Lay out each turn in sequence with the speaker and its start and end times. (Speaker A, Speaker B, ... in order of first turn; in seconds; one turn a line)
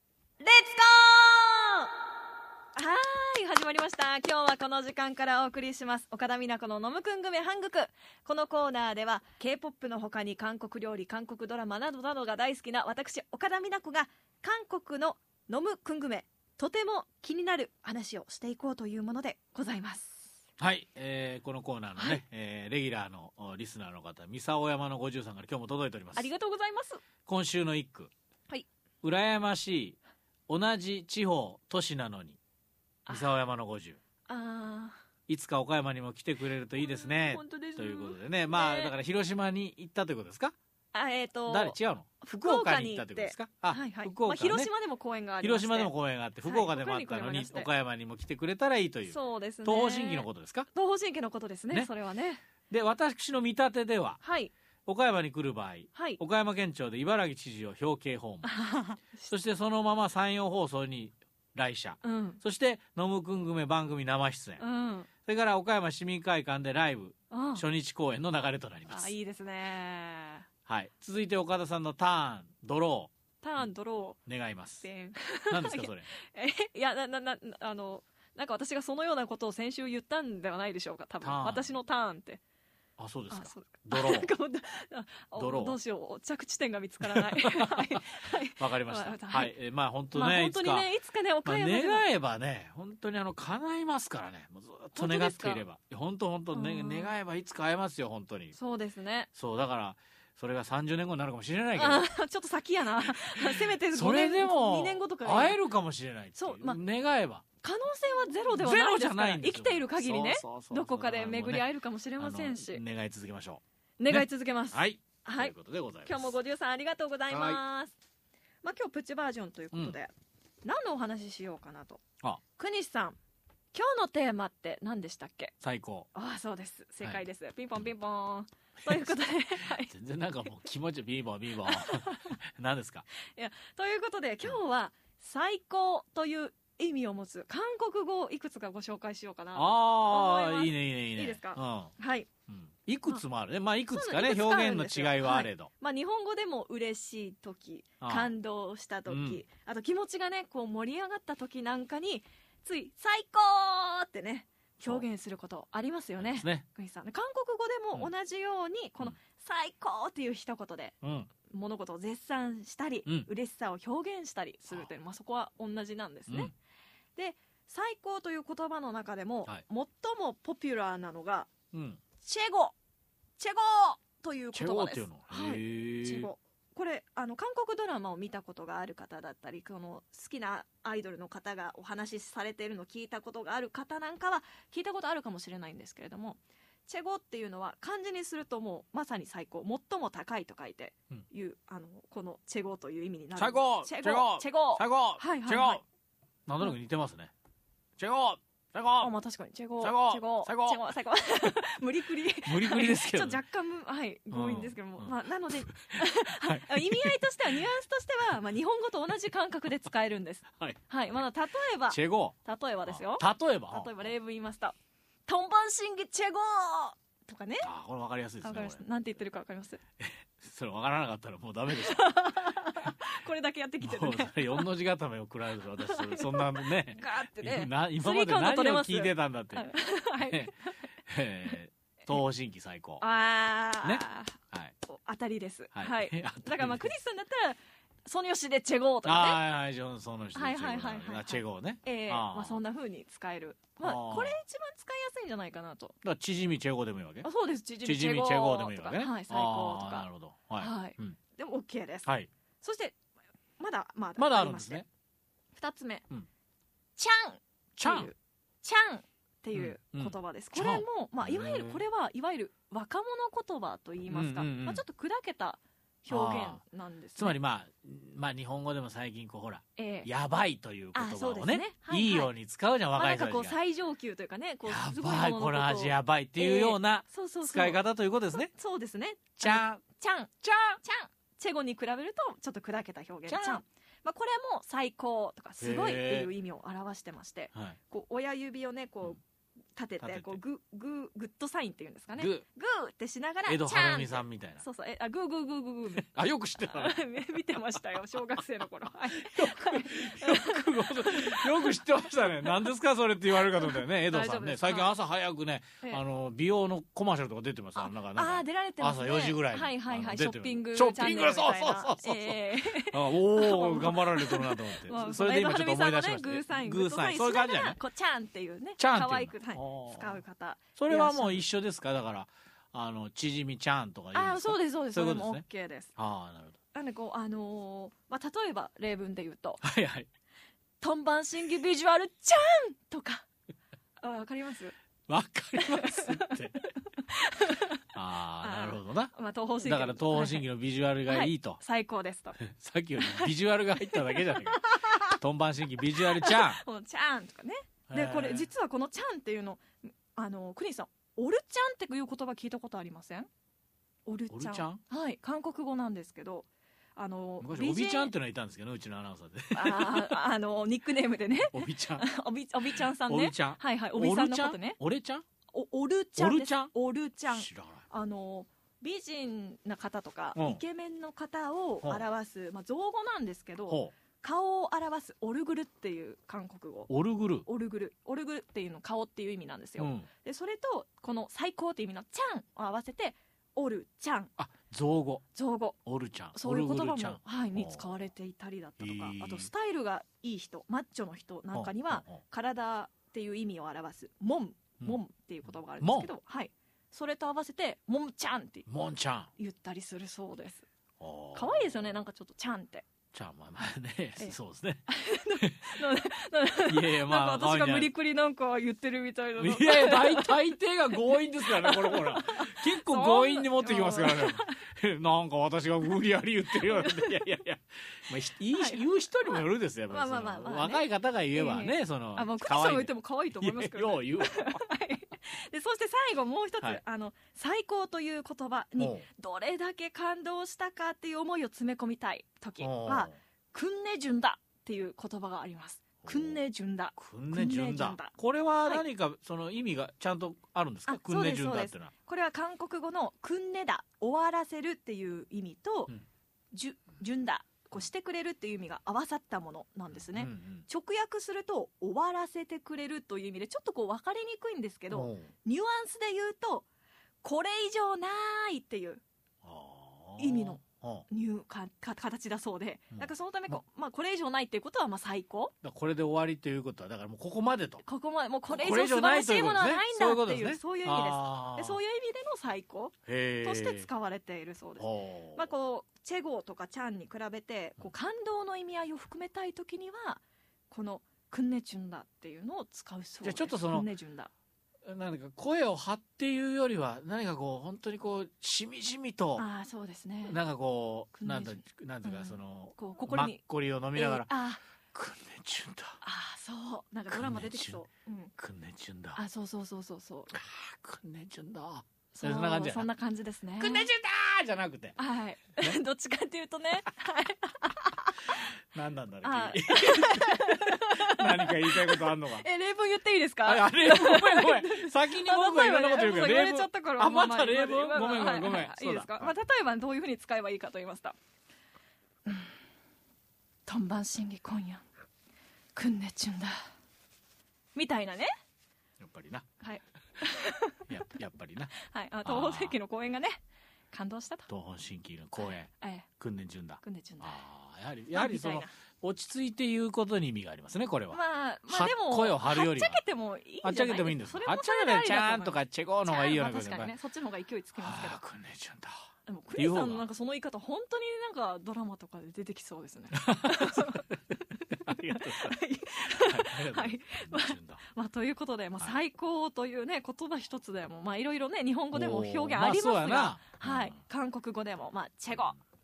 Speaker A: 0.4-1.9
Speaker A: 2.8-20.3
Speaker B: 20.6-26.3
Speaker A: 21.9-22.2
Speaker A: 26.1-27.0
Speaker B: 27.2-28.1
Speaker B: 29.0-32.4
Speaker A: 33.1-33.3
Speaker B: 33.1-34.0
Speaker A: 34.3-35.0
Speaker B: 35.3-40.5
Speaker A: 36.7-38.9
Speaker A: 40.9-47.7
Speaker B: 41.5-44.7
Speaker B: 45.4-50.7
Speaker A: 49.1-52.4
Speaker B: 52.7-54.2
Speaker A: 54.2-54.5
Speaker B: 54.9-58.6
Speaker A: 55.9-56.2
Speaker A: 58.4-59.3
Speaker B: 59.3-64.6
Speaker A: 62.0-62.4
Speaker A: 64.6-65.1
Speaker B: 65.2-69.1
Speaker A: 67.3-67.6
Speaker A: 68.9-70.5
Speaker B: 70.7-73.6
Speaker A: 73.4-74.2
Speaker B: 74.2-74.8
Speaker A: 74.8-82.4
Speaker B: 75.5-76.1
Speaker B: 81.2-81.7
Speaker B: 83.0-84.3
Speaker A: 83.3-89.5
Speaker B: 85.3-85.8
Speaker B: 87.0-88.0
Speaker B: 88.6-90.9
Speaker A: 90.1-92.1
Speaker B: 91.4-98.5
Speaker A: 94.9-95.6
Speaker A: 96.5-97.1
Speaker A: 98.5-99.3
Speaker B: 99.3-102.1
Speaker A: 101.8-105.6
Speaker B: 103.5-107.4
Speaker A: 106.3-106.8
Speaker A: 107.6-112.8
Speaker B: 108.5-111.7
Speaker B: 112.2-116.3
Speaker A: 114.0-115.5
Speaker A: 116.0-117.9
Speaker B: 117.3-117.6
Speaker A: 118.6-120.1
Speaker B: 119.7-120.0
Speaker A: 120.6-122.0
Speaker A: 122.5-123.2
Speaker A: 123.7-125.5
Speaker B: 125.6-126.1
Speaker A: 126.1-129.9
Speaker B: 128.8-133.0
Speaker A: 131.7-132.3
Speaker A: 133.3-142.3
Speaker B: 139.5-141.9
Speaker B: 142.5-145.7
Speaker A: 143.9-160.9
Speaker B: 148.0-148.3
Speaker B: 149.1-149.4
Speaker B: 154.8-155.0
Speaker B: 156.2-156.6
Speaker B: 161.0-161.3
Speaker A: 161.5-166.5
Speaker A: 167.2-171.5
Speaker B: 171.7-172.0
Speaker A: 172.2-172.7
Speaker A: 173.4-195.8
Speaker B: 174.5-176.3
Speaker B: 193.3-195.8
Speaker B: 196.5-197.3
Speaker B: 198.0-199.1
Speaker A: 199.0-214.7
Speaker B: 199.8-200.9
Speaker B: 202.4-203.4
Speaker B: 204.3-205.1
Speaker B: 205.7-207.6
Speaker B: 211.9-212.3
Speaker B: 212.9-214.1
Speaker A: 215.3-217.7
Speaker B: 217.6-218.8
Speaker A: 218.4-219.8
Speaker B: 220.0-222.9
Speaker A: 221.7-224.7
Speaker B: 223.8-230.5
Speaker A: 225.8-230.9
Speaker B: 231.0-233.0
Speaker A: 233.0-239.4
Speaker B: 233.8-234.7
Speaker B: 235.7-236.9
Speaker B: 239.0-242.6
Speaker A: 240.3-245.9
Speaker B: 243.8-244.4
Speaker B: 246.0-247.3
Speaker A: 247.2-250.1
Speaker B: 247.8-251.2
Speaker A: 250.6-252.1
Speaker B: 252.0-252.3
Speaker A: 252.6-253.0
Speaker A: 253.6-254.8
Speaker B: 254.2-254.8
Speaker A: 255.5-256.1
Speaker A: 257.0-267.4
Speaker B: 257.8-258.1
Speaker B: 259.5-261.8
Speaker B: 264.1-264.8
Speaker B: 266.1-266.6
Speaker B: 267.1-273.6
Speaker A: 269.8-270.1
Speaker A: 270.9-272.3
Speaker A: 272.9-289.2
Speaker B: 274.6-278.5
Speaker B: 279.4-279.8
Speaker B: 280.4-280.8
Speaker B: 283.3-283.6
Speaker B: 285.6-286.3
Speaker A: 289.7-296.1
Speaker B: 290.0-290.4
Speaker B: 292.1-292.4
Speaker B: 293.5-294.6
Speaker B: 296.0-297.0
Speaker A: 296.6-302.6
Speaker B: 299.2-317.8
Speaker A: 303.4-304.9
Speaker A: 307.8-321.4
Speaker B: 318.8-320.2
Speaker B: 320.8-325.4
Speaker A: 324.1-325.9
Speaker B: 325.9-326.6
Speaker A: 326.7-329.6
Speaker B: 329.6-330.1
Speaker A: 330.8-333.2
Speaker A: 334.0-334.7
Speaker B: 335.1-336.5
Speaker A: 335.6-337.8
Speaker B: 337.9-339.1
Speaker A: 338.4-340.5
Speaker B: 339.6-341.6
Speaker A: 341.1-342.4
Speaker B: 342.4-346.6
Speaker A: 343.0-345.2
Speaker A: 346.0-353.3
Speaker B: 347.9-348.5
Speaker A: 354.1-358.1
Speaker B: 354.3-354.8
Speaker B: 357.4-360.2
Speaker A: 359.5-364.8
Speaker B: 361.4-362.1
Speaker B: 362.7-365.2
Speaker A: 365.5-376.9
Speaker B: 366.2-366.7
Speaker B: 367.3-367.8
Speaker B: 370.3-370.6
Speaker B: 373.7-373.9
Speaker B: 376.9-377.4
Speaker A: 377.4-384.3
Speaker B: 379.8-380.1
Speaker B: 384.4-385.2
Speaker A: 385.3-385.8
Speaker B: 385.9-387.9
Speaker A: 386.3-398.7
Speaker B: 388.8-389.5
Speaker B: 391.5-392.2
Speaker B: 395.8-396.1
Speaker B: 398.7-399.3
Speaker A: 399.4-400.6
Speaker B: 401.0-401.9
Speaker A: 401.3-402.9
Speaker B: 403.1-405.8
Speaker A: 404.9-414.6
Speaker B: 406.7-407.9
Speaker B: 409.4-424.6
Speaker A: 416.5-417.2
Speaker A: 418.5-438.8
Speaker B: 428.8-429.1
Speaker B: 432.6-433.1
Speaker B: 436.0-436.4
Speaker B: 436.9-441.9
Speaker A: 440.9-445.9
Speaker A: 446.5-456.7
Speaker B: 449.9-450.7
Speaker B: 454.9-455.3
Speaker A: 457.2-459.0
Speaker B: 459.4-461.1
Speaker A: 460.2-465.5
Speaker B: 462.9-463.6
Speaker B: 465.6-467.8
Speaker A: 467.8-484.3
Speaker B: 468.5-471.8
Speaker B: 473.1-473.9
Speaker B: 474.8-475.5
Speaker B: 483.2-483.9
Speaker B: 484.8-489.4
Speaker A: 489.4-490.4
Speaker B: 490.2-494.3
Speaker A: 491.1-493.4
Speaker A: 493.9-494.6
Speaker B: 494.9-496.0
Speaker A: 496.0-498.3
Speaker B: 497.1-497.8
Speaker B: 498.4-499.2
Speaker A: 499.1-500.3
Speaker B: 500.3-502.9
Speaker A: 502.1-503.9
Speaker B: 503.6-505.0
Speaker A: 505.0-508.4
Speaker B: 508.7-512.4
Speaker A: 509.2-521.1
Speaker B: 513.4-519.3
Speaker A: 522.2-522.5
Speaker A: 523.6-524.8
Speaker A: 525.7-526.6
Speaker A: 527.7-528.3
Speaker B: 529.0-529.5
Speaker A: 529.6-530.9
Speaker B: 530.9-531.7
Speaker A: 531.8-534.5
Speaker B: 532.2-532.7
Speaker B: 534.5-543.0
Speaker A: 535.4-536.1
Speaker A: 536.8-537.4
Speaker A: 538.1-538.7
Speaker A: 541.1-548.2
Speaker B: 543.6-547.0
Speaker B: 547.8-548.9
Speaker A: 549.2-565.5
Speaker B: 549.5-550.0
Speaker B: 553.1-557.8
Speaker B: 561.9-564.0